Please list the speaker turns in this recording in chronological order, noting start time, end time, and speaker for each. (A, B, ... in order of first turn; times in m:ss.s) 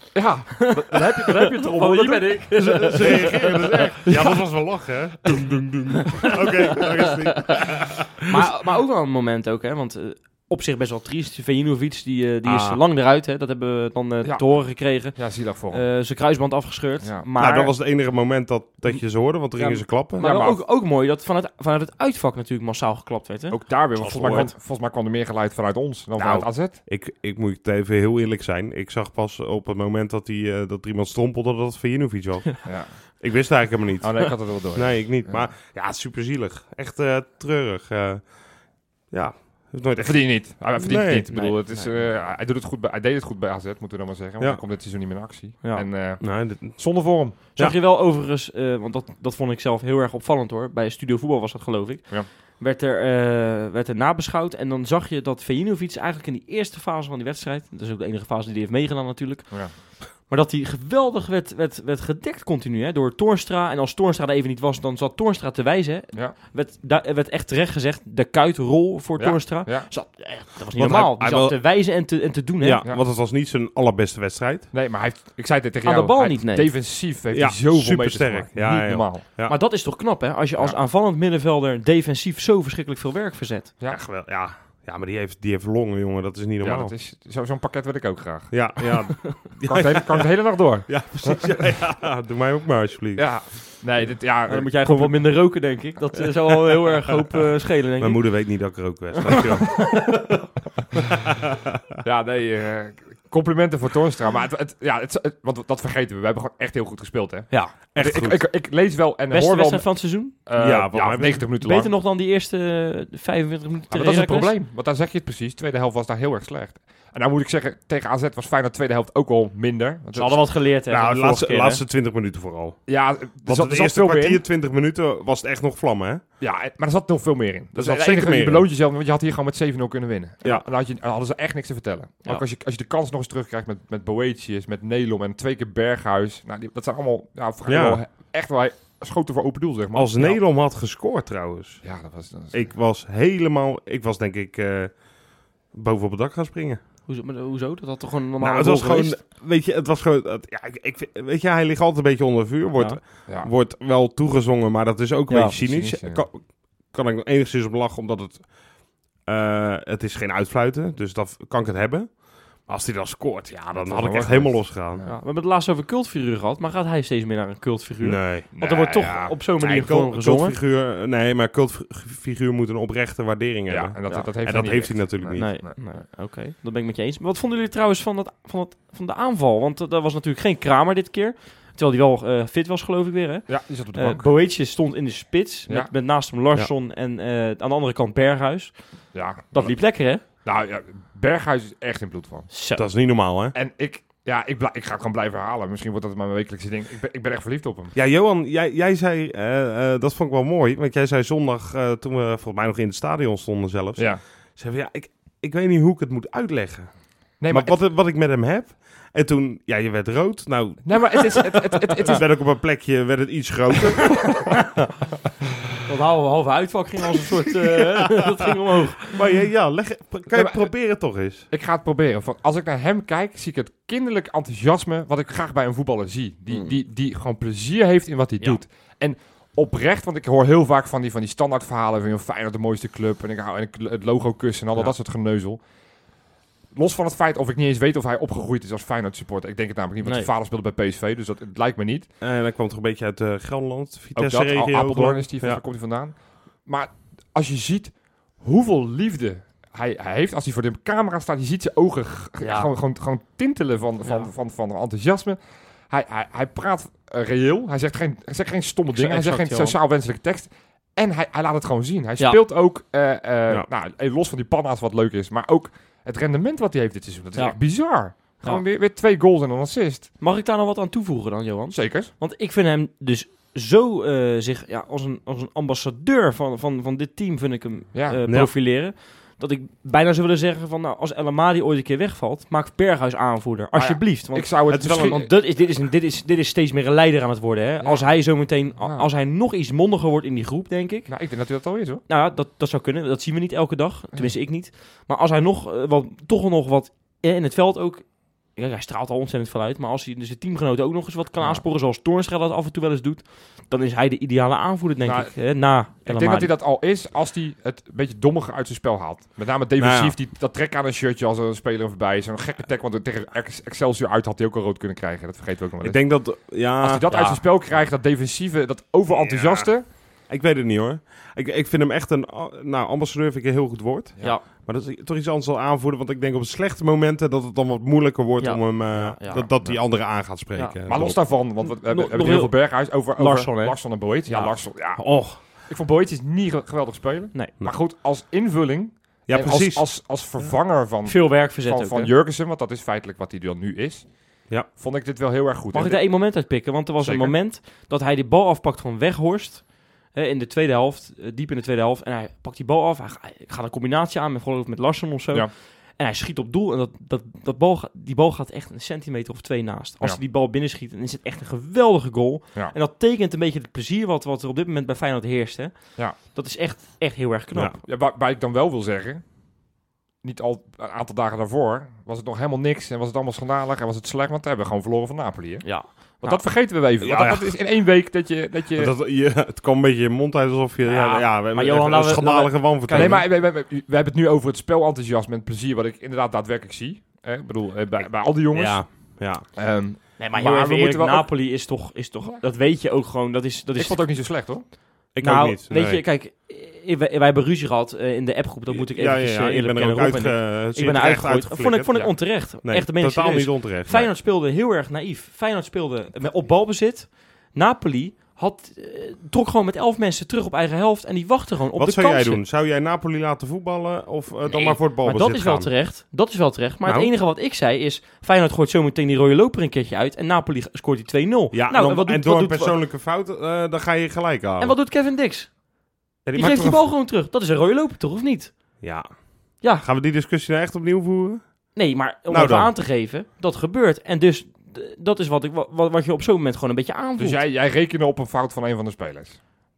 0:00.1-0:03.0 A
0:00.6-0:04.1 B
0:02.5-0:08.5 C
0:06.6-0:07.5 B
0:08.3-0:17.8 B
0:12.4-0:12.8 C
0:14.2-0:15.8 A
0:17.4-0:20.2 C
0:18.9-0:24.5 B
0:20.2-0:20.6 A
0:23.5-0:26.8 A
0:24.1-0:24.5 C
0:26.2-0:41.3 C
0:32.6-0:35.4 A
0:40.0-0:47.4 A
0:41.3-0:42.1 B
0:45.6-0:45.9 B
0:46.2-0:47.8 C
0:47.6-1:12.8 B
1:09.2-1:09.9 A
1:10.8-1:11.7 C
1:12.6-1:14.7 C
1:14.7-1:19.2 A
1:15.8-1:16.7 B
1:17.3-1:19.6 C
1:19.4-1:23.7 B
1:23.9-1:26.9 C
1:26.6-1:31.6 A
1:28.5-1:30.3 C
1:30.8-1:33.4 C
1:33.2-1:35.3 A
1:34.5-1:38.8 B
1:38.0-1:40.2 C
1:39.3-1:40.4 B
1:41.2-1:41.8 C
1:42.0-1:51.9 A
1:47.5-1:47.7 B
1:47.9-1:48.4 C
1:49.3-1:50.3 B
1:50.6-1:51.5 C
1:51.6-1:54.5 B
1:53.9-2:00.4 A
2:00.1-2:01.8 B
2:00.9-2:02.8 C
2:02.9-2:04.4 A
2:03.4-2:06.2 C
2:06.4-2:20.4 A
2:07.7-2:08.7 C
2:17.7-2:18.0 C
2:19.9-2:21.8 C
2:21.8-2:22.7 A
2:22.5-2:26.8 C
2:27.1-2:29.2 B
2:28.4-2:45.0 C
2:35.3-2:35.5 B
2:35.5-2:36.2 A
2:43.7-2:45.2 A
2:45.0-2:50.5 B
2:48.0-2:48.5 C
2:48.5-2:49.4 A
2:49.6-2:55.4 C
2:53.7-2:55.8 A
2:55.3-3:10.2 B
3:03.5-3:04.3 A
3:09.1-3:12.5 A
3:12.5-3:12.8 B
3:12.8-3:13.5 C
3:13.5-3:17.9 A
3:17.9-3:26.9 C
3:24.0-3:24.2 A
3:27.4-3:27.8 A
3:27.5-3:34.5 C
3:30.8-3:32.2 A
3:35.9-3:39.2 B
3:39.1-3:41.5 C
3:40.3-3:40.9 A
3:41.5-3:55.6 A
3:56.7-4:02.1 A
4:00.0-4:00.3 B
4:02.2-4:05.6 C
4:04.2-4:30.1 A
4:12.4-4:12.7 B
4:14.0-4:14.3 B
4:18.9-4:19.8 B
4:27.3-4:28.6 B
4:30.2-4:51.1 B
4:31.7-4:32.1 A
4:37.9-4:38.2 A
4:38.3-4:38.5 C
4:43.7-4:45.3 A
4:44.7-4:45.2 C
4:47.8-4:49.1 A
4:51.1-4:52.0 A
4:52.1-5:06.5 B
5:05.0-5:19.9 A
5:09.8-5:10.2 C
5:15.8-5:17.0 C
5:17.1-5:17.4 B
5:19.1-5:31.2 C
5:28.4-5:29.5 B
5:28.9-5:30.3 A
5:30.5-5:34.6 B
5:30.9-5:47.4 A
5:35.0-5:35.4 C
5:39.3-5:40.5 C
5:41.0-5:42.1 B
5:45.7-6:07.8 B
6:07.8-6:09.2 A
6:10.2-6:18.9 A
6:15.6-6:16.4 B
6:17.0-6:17.6 C
6:18.7-6:23.2 C
6:20.8-6:23.2 B
6:22.9-6:31.3 A
6:28.5-6:29.5 C
6:30.2-6:34.0 B
6:33.8-6:34.7 A
6:35.1-6:36.0 C
6:35.2-6:52.4 B
6:38.7-6:44.1 C
6:51.8-6:55.7 C
6:54.5-7:02.8 B
6:56.8-6:57.1 C
7:01.5-7:04.8 C
7:04.6-7:05.7 B
7:06.2-7:06.9 C
7:06.3-7:08.8 B
7:08.8-7:11.7 C
7:09.6-7:09.8 B
7:11.7-7:17.4 B
7:12.3-7:12.7 C
7:17.2-7:19.4 A